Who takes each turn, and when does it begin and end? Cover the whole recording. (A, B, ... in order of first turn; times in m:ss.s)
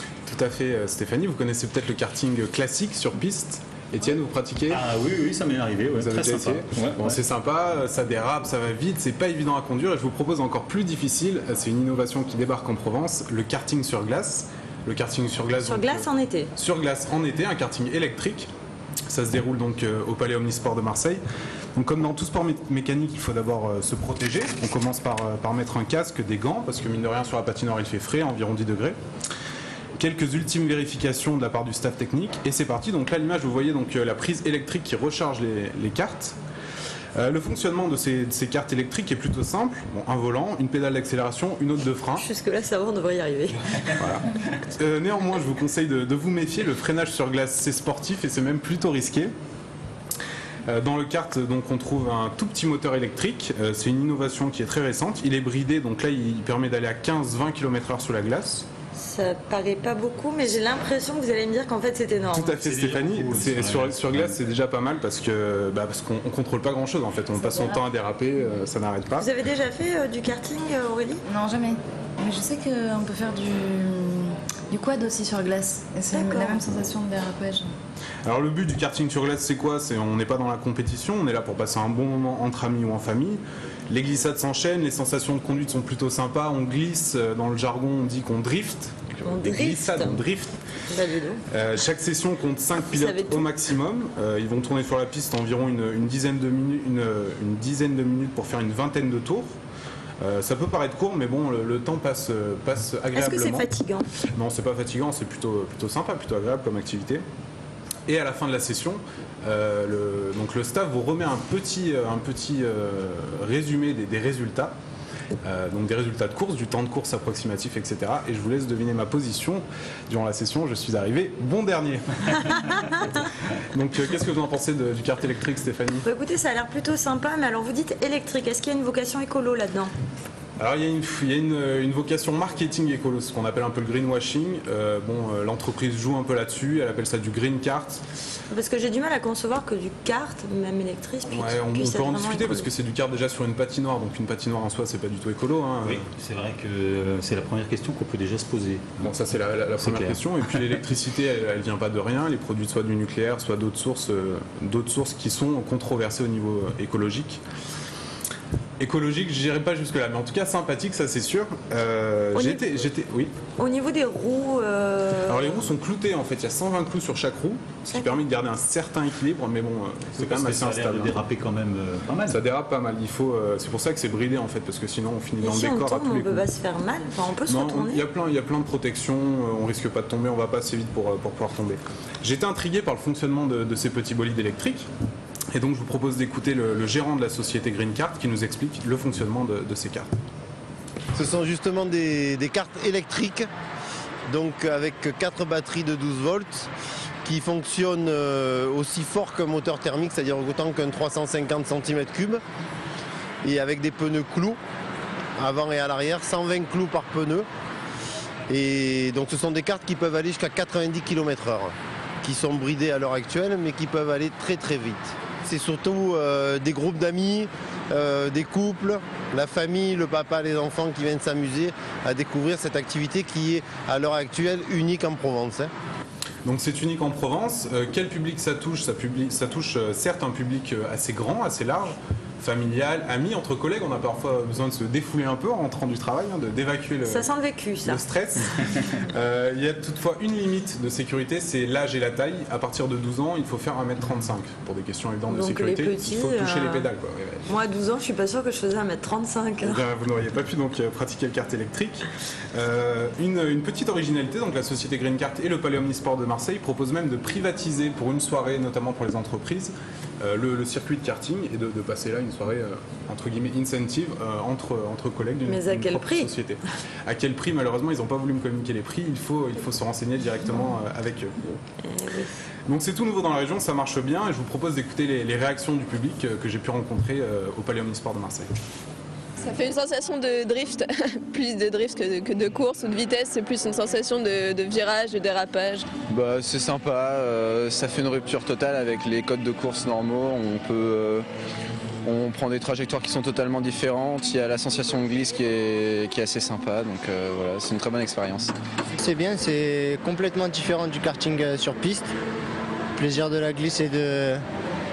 0:00.3-0:04.8 A
0:04.7-0:07.2 B
0:06.0-0:18.5 A
0:15.6-0:16.5 C
0:19.1-0:21.2 A
0:21.8-0:29.0 A
0:30.0-0:36.4 A
0:37.2-0:42.2 A
0:42.1-0:43.6 C
0:44.0-0:44.2 A
0:44.8-0:49.3 A
0:50.6-0:58.6 A
0:58.9-1:02.6 C
1:02.3-1:09.3 A
1:02.6-1:04.4 B
1:09.2-1:11.2 C
1:11.3-1:17.7 D
1:16.1-1:16.6 C
1:18.2-1:30.5 A
1:29.2-1:30.2 C
1:30.9-1:31.4 C
1:31.5-1:39.5 A
1:32.9-1:33.4 C
1:40.2-1:43.7 A
1:43.1-1:44.1 C
1:44.3-1:47.2 A
1:48.1-1:54.7 A
1:55.4-2:06.0 A
2:06.0-2:09.9 C
2:10.6-2:18.0 A
2:18.5-2:22.7 C
2:21.3-2:26.0 A
2:25.8-2:30.2 B
2:29.0-2:37.4 A
2:38.8-2:43.4 A
2:42.3-2:42.6 C
2:43.6-2:45.6 C
2:45.2-2:51.2 A
2:47.9-2:48.2 C
2:50.2-2:52.4 B
2:52.3-2:56.4 A
2:55.4-2:58.0 C
2:57.5-3:04.9 A
3:05.5-3:10.1 A
3:11.1-3:13.5 E
3:14.3-3:16.7 E
3:17.2-3:22.4 E
3:23.4-3:24.6 E
3:25.4-3:27.4 E
3:28.5-3:45.7 E
3:46.4-3:57.3 A
3:57.0-3:58.0 C
3:57.8-4:07.5 A
4:05.3-4:06.9 C
4:07.5-4:09.8 C
4:09.6-4:31.6 A
4:25.4-4:26.3 C
4:31.8-4:32.3 C
4:32.7-4:38.5 A
4:39.4-4:45.8 F
4:46.1-4:51.3 G
4:52.0-4:58.5 G
4:59.0-5:02.1 H
5:03.0-5:04.4 H